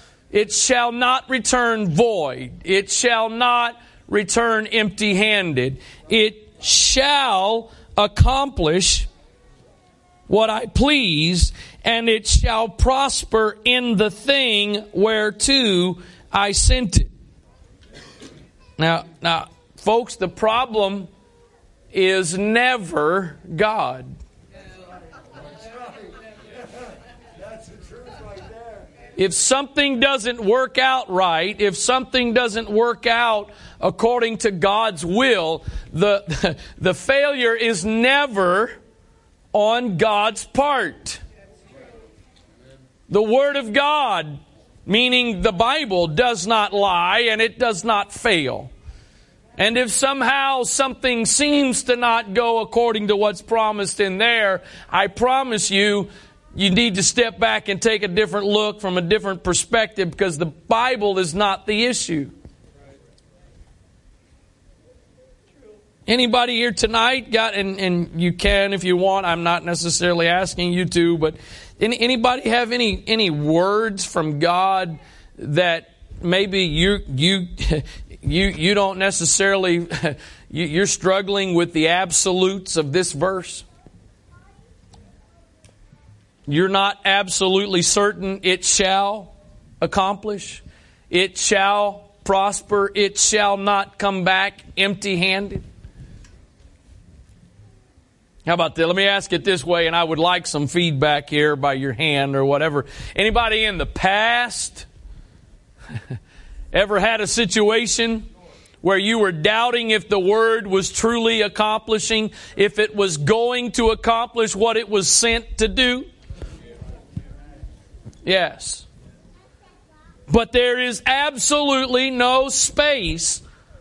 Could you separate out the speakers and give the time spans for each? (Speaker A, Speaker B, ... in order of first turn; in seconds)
Speaker A: 0.3-9.1, 10.3-17.1, 18.8-21.1, 21.9-24.1, 29.1-38.7, 39.5-41.2, 43.1-48.7, 49.6-62.3, 66.0-83.7, 86.5-95.7, 98.4-104.9, 106.7-108.3, 108.8-116.1, 118.2-118.9, 120.3-123.4